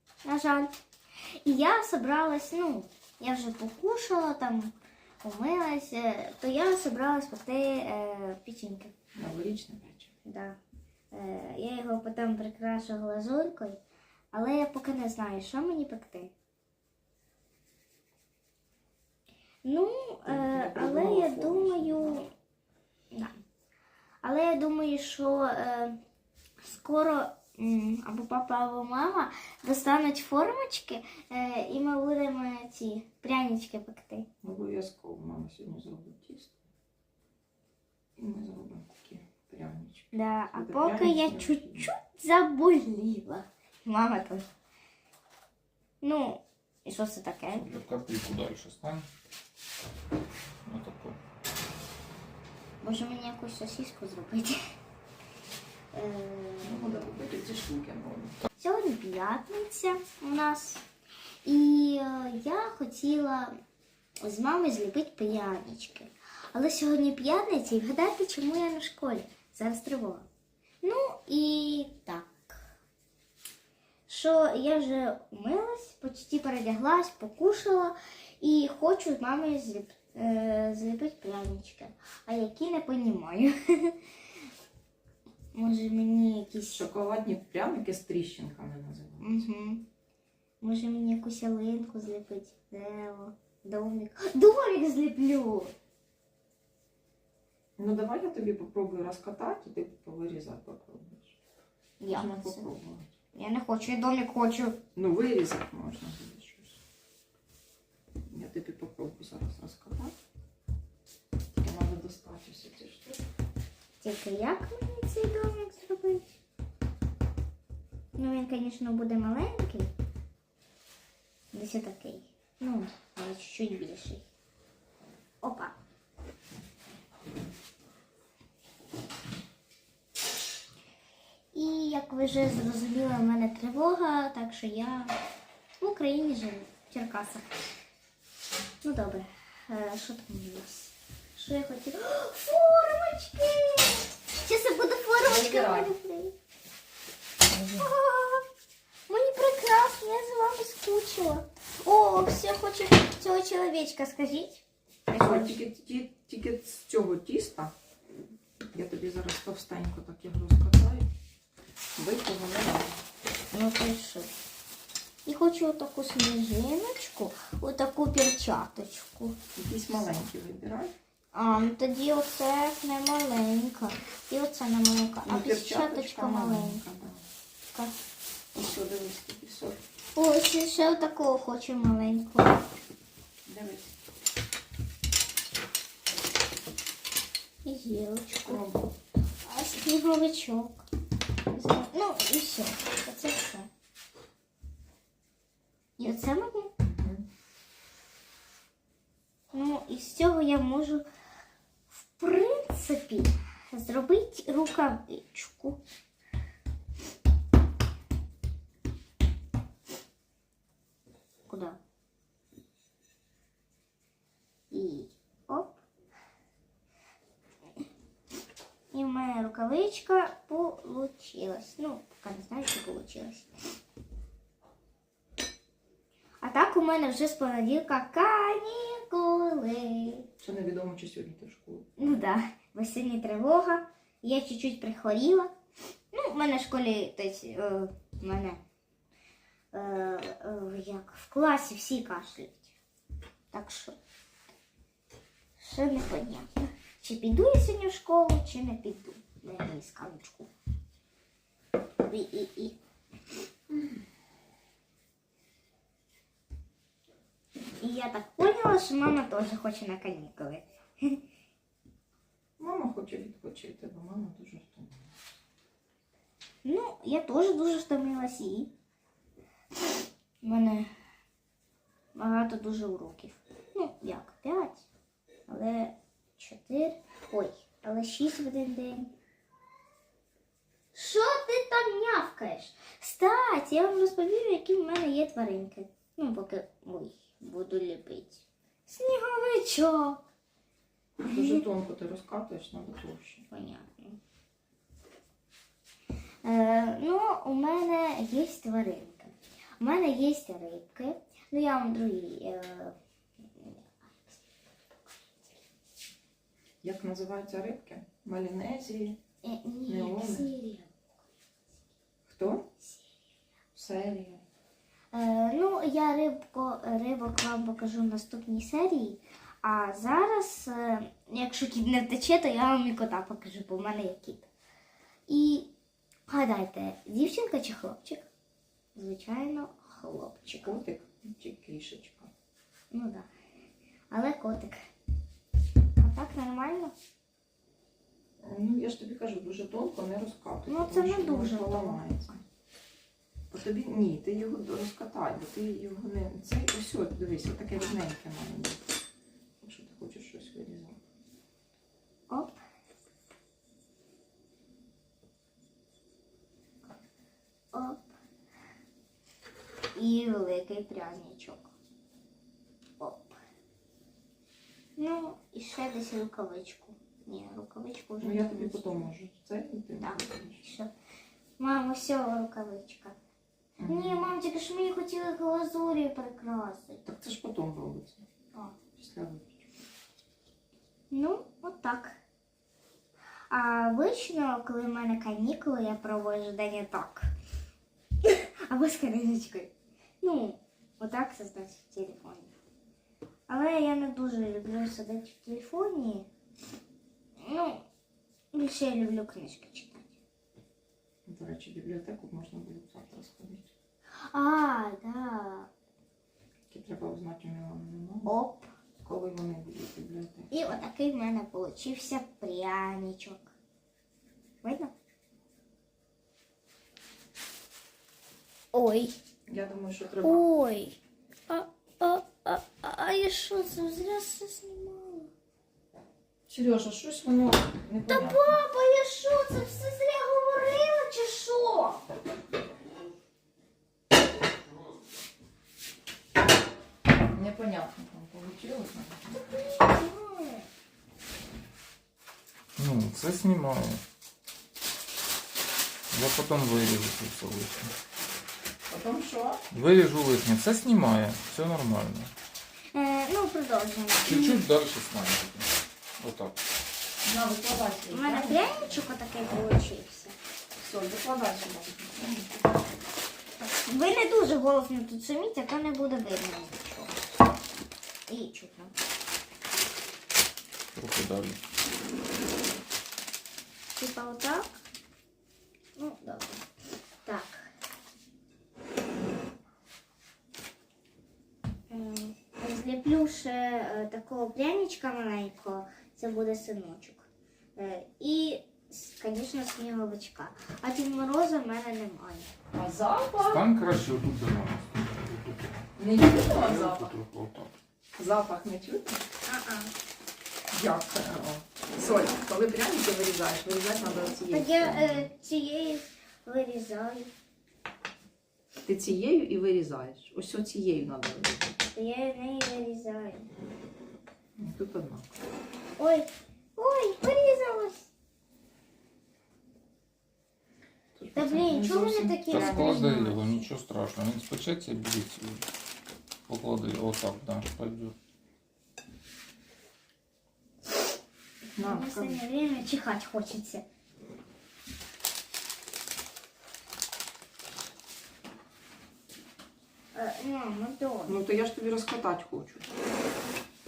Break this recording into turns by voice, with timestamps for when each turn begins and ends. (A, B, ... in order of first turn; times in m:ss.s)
0:00.2-0:00.7 A
0:01.4-0:04.7 A
0:05.2-0:08.9 A
0:09.1-0:10.1 B
0:10.2-0:10.6 A
0:11.1-0:13.8 A
0:14.3-0:16.3 A
0:19.6-0:22.3 A
0:20.3-0:22.2 B
0:24.2-0:26.0 A
0:26.6-0:34.3 A
0:34.4-0:36.6 B
0:38.2-0:41.9 B
0:40.1-0:44.4 A
0:46.0-0:47.8 A
0:47.6-0:49.0 C
0:50.6-0:51.2 C
0:52.8-0:54.6 A
0:55.9-0:57.1 A
0:56.6-0:58.4 B
0:58.6-1:00.8 A
1:01.4-1:03.6 A
1:04.2-1:10.2 A
1:10.8-1:12.6 A
1:14.1-1:24.0 A
1:25.5-1:26.9 A
1:26.7-1:29.4 B
1:29.2-1:29.8 A
1:30.6-1:35.7 A
1:37.8-1:41.4 B
1:42.0-1:42.6 A
1:42.1-1:43.1 B
1:43.3-1:44.8 A
1:45.0-1:46.8 B
1:48.3-1:50.1 B
1:51.5-1:53.2 B
1:54.0-1:56.4 A
1:58.2-1:59.9 A
2:01.5-2:04.2 A
2:05.4-2:05.7 A
2:11.5-2:15.1 A
2:15.8-2:17.5 A
2:18.8-2:26.3 A
2:25.2-2:25.9 B
2:27.4-2:27.9 B
2:27.8-2:28.4 A
2:29.1-2:35.5 A
2:35.2-2:37.7 B
2:38.7-2:41.1 B
2:42.0-2:43.0 B
2:43.5-2:44.3 A
2:45.2-2:49.4 A
2:49.5-2:50.9 B
2:51.3-2:56.8 A
2:55.2-2:57.2 B
2:58.5-2:59.8 B
3:00.1-3:02.6 A
3:03.4-3:03.9 B
3:07.6-3:08.6 A
3:08.4-3:08.9 B
3:09.4-3:10.8 A
3:11.5-3:13.7 A
3:16.0-3:16.7 A
3:16.8-3:17.2 B
3:19.5-3:21.0 A
3:21.9-3:25.8 A
3:31.5-3:31.8 A
3:34.7-3:35.8 A
3:38.9-3:43.5 A
3:46.4-3:50.2 A
3:50.4-3:51.9 B
3:52.0-3:55.5 A
3:56.1-3:58.6 A
3:59.7-4:02.7 A
4:03.5-4:04.0 A
4:05.6-4:10.5 A
4:12.0-4:12.8 A
4:17.8-4:21.2 A
4:22.6-4:25.1 B
4:26.6-4:28.7 A
4:30.4-4:30.9 A
4:32.1-4:34.8 A
4:35.5-4:39.1 A
4:40.9-4:50.2 A
4:51.2-4:51.6 A
4:51.2-4:53.4 B
4:53.5-4:54.2 A
4:56.4-5:03.0 A
5:03.5-5:04.4 A
5:06.8-5:09.2 B
5:09.4-5:10.9 A
5:09.9-5:10.5 B
5:12.3-5:12.7 B
5:13.7-5:14.4 B
5:15.1-5:24.5 A
5:25.3-5:25.7 A
5:26.3-5:28.3 A
5:28.9-5:30.8 A
5:30.6-5:32.3 B
5:32.9-5:33.3 A
5:34.1-5:34.8 A
5:36.0-5:36.9 A
5:38.4-5:42.4 B
5:40.7-5:42.0 A
5:43.5-5:48.8 B
5:49.6-5:51.0 B
5:52.3-5:52.5 A
5:57.7-5:58.0 A
6:00.0-6:01.7 A
6:03.0-6:03.4 A
6:05.0-6:09.0 A
6:08.2-6:10.6 B
6:10.0-6:10.9 A
6:11.6-6:13.2 A
6:13.8-6:14.3 B
6:13.9-6:17.0 A
6:17.0-6:18.2 B
6:19.0-6:19.6 B
6:21.1-6:22.2 A
6:23.5-6:27.2 A
6:28.2-6:32.5 A
6:33.5-6:36.3 A
6:37.4-6:37.8 A
6:38.5-6:40.1 A
6:41.2-6:43.7 B
6:44.3-6:45.7 A
6:46.7-6:48.3 B
6:48.2-6:48.7 A
6:49.0-6:50.5 B
6:50.5-6:53.5 A
6:54.6-6:54.9 A
6:58.7-6:59.2 A
6:59.5-7:00.4 B
7:00.2-7:01.0 A
7:01.5-7:05.3 A
7:06.5-7:08.6 B
7:08.1-7:12.0 A
7:14.3-7:15.3 C
7:17.3-7:19.5 B
7:19.3-7:20.6 A
7:22.8-7:24.0 C
7:26.1-7:27.9 C
7:28.9-7:29.6 B
7:29.7-7:32.3 C
7:32.9-7:34.6 A
7:34.2-7:36.6 C
7:37.2-7:39.0 B
7:38.1-7:40.4 A
7:40.8-7:42.7 B
7:43.6-7:47.2 A
7:48.3-7:48.9 A
7:51.0-7:51.6 C
7:54.0-7:54.7 A
7:56.0-7:56.6 A
7:57.2-7:57.7 A
8:01.9-8:12.5 A
8:12.7-8:13.7 B
8:13.4-8:17.7 C
8:16.0-8:17.1 B
8:18.2-8:19.2 B
8:19.4-8:19.9 A
8:20.7-8:25.3 B
8:24.5-8:27.3 A
8:28.8-8:31.7 B
8:31.9-8:33.5 A
8:34.6-8:35.4 B
8:36.0-8:38.1 A
8:41.1-8:43.3 B
8:41.3-8:43.5 A
8:42.5-8:45.6 C
8:46.5-8:48.1 C
8:51.8-8:53.8 A
8:51.8-8:52.4 B
9:00.1-9:01.4 A
9:01.3-9:02.9 B